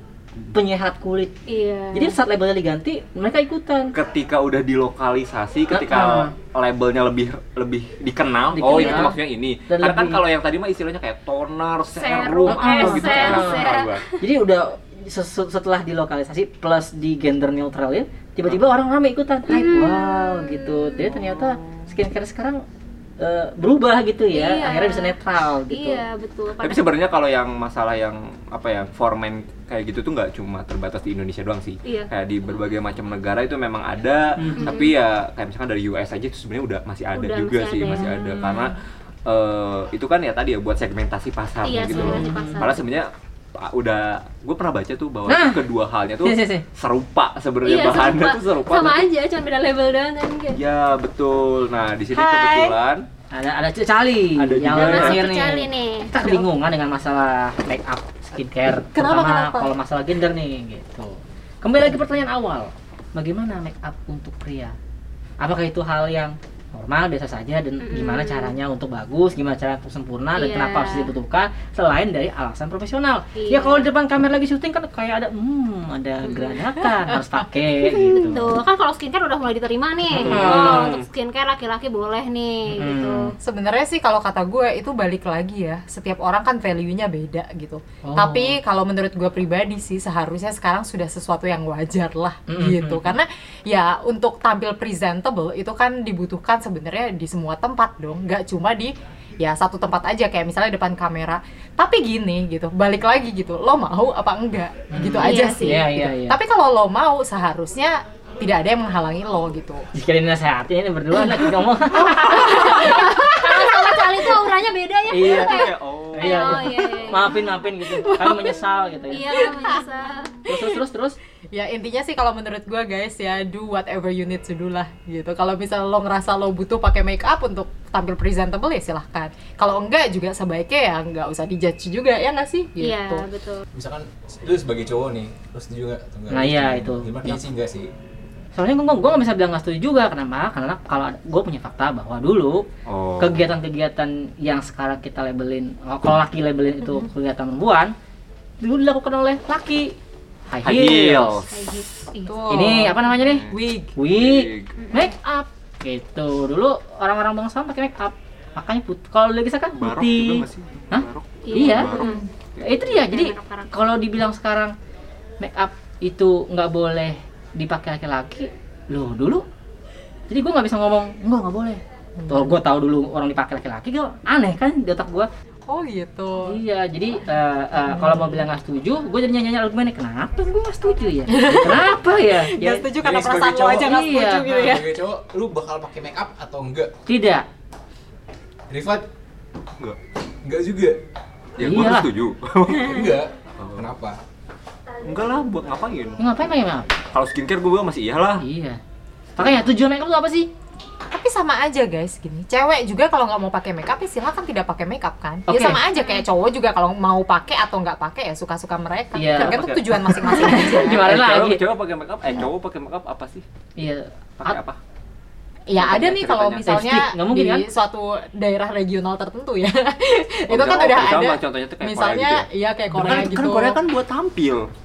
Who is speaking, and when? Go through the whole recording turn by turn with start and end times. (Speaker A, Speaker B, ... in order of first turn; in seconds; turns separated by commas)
Speaker A: 0.5-1.3, Speaker B: 1.5-2.1, Speaker A: 1.9-3.9, Speaker C: 3.9-14.0, Speaker A: 5.7-6.3, Speaker A: 8.5-9.2, Speaker B: 8.7-9.1, Speaker A: 9.7-10.2, Speaker B: 11.9-14.2, Speaker A: 12.4-22.6, Speaker B: 19.5-21.1, Speaker C: 21.0-21.8, Speaker A: 23.2-26.0, Speaker B: 24.3-25.2, Speaker B: 25.7-26.9, Speaker C: 26.6-49.1, Speaker B: 31.8-32.1, Speaker A: 34.4-34.8, Speaker B: 34.6-35.0, Speaker B: 37.1-38.7, Speaker B: 41.6-42.8, Speaker A: 41.9-42.7, Speaker A: 45.3-45.6, Speaker A: 46.2-46.6, Speaker B: 47.6-50.6, Speaker C: 50.5-53.1, Speaker A: 52.1-52.8, Speaker A: 53.3-64.8, Speaker C: 54.4-55.2, Speaker B: 54.7-56.3, Speaker D: 59.0-59.7, Speaker A: 65.4-78.5, Speaker B: 67.8-68.5, Speaker B: 70.3-71.1, Speaker B: 73.3-73.9, Speaker B: 76.2-76.6, Speaker B: 77.8-83.3, Speaker A: 80.2-81.0, Speaker C: 80.2-81.0, Speaker A: 82.8-83.3, Speaker D: 83.4-109.8, Speaker A: 88.0-88.6, Speaker A: 92.5-93.1, Speaker A: 104.9-106.4, Speaker B: 105.2-105.8, Speaker A: 109.9-113.1, Speaker B: 112.2-117.4, Speaker D: 112.5-114.2, Speaker A: 115.1-119.4, Speaker C: 115.3-116.8, Speaker D: 118.1-118.5, Speaker B: 119.1-120.5, Speaker D: 119.3-119.7, Speaker A: 120.5-121.2, Speaker D: 121.5-133.2, Speaker B: 132.8-133.7, Speaker E: 133.7-137.9, Speaker A: 136.3-137.4, Speaker A: 138.5-142.7, Speaker C: 142.8-143.4, Speaker A: 143.2-147.9, Speaker A: 148.6-150.0, Speaker A: 150.5-151.4, Speaker C: 150.6-151.7, Speaker B: 151.5-152.4, Speaker D: 152.2-153.9, Speaker A: 152.5-162.0, Speaker C: 153.1-153.5, Speaker C: 154.1-154.8, Speaker B: 154.8-155.1, Speaker C: 159.8-162.9, Speaker B: 161.4-162.2, Speaker D: 162.0-162.3, Speaker A: 162.6-164.7, Speaker B: 162.8-163.7, Speaker A: 165.4-169.4, Speaker A: 170.3-175.3, Speaker D: 172.2-172.5, Speaker D: 175.7-176.6, Speaker A: 176.4-182.9, Speaker D: 177.9-178.4, Speaker D: 181.3-185.0, Speaker E: 183.0-183.9, Speaker A: 183.7-184.8, Speaker E: 184.6-186.9, Speaker A: 187.1-187.4, Speaker E: 188.7-189.0, Speaker E: 190.4-191.0, Speaker C: 191.6-193.9, Speaker A: 191.6-192.1, Speaker E: 192.8-194.2, Speaker C: 195.0-196.2, Speaker A: 196.2-196.9, Speaker C: 197.1-198.4, Speaker A: 198.4-198.8, Speaker A: 199.3-200.5, Speaker D: 201.1-211.1, Speaker A: 205.5-205.8, Speaker B: 205.9-206.2, Speaker A: 209.1-211.6, Speaker C: 209.4-213.4, Speaker A: 213.8-214.6, Speaker C: 214.4-214.8, Speaker D: 215.7-223.8, Speaker C: 215.8-216.8, Speaker A: 216.6-217.7, Speaker C: 220.5-224.7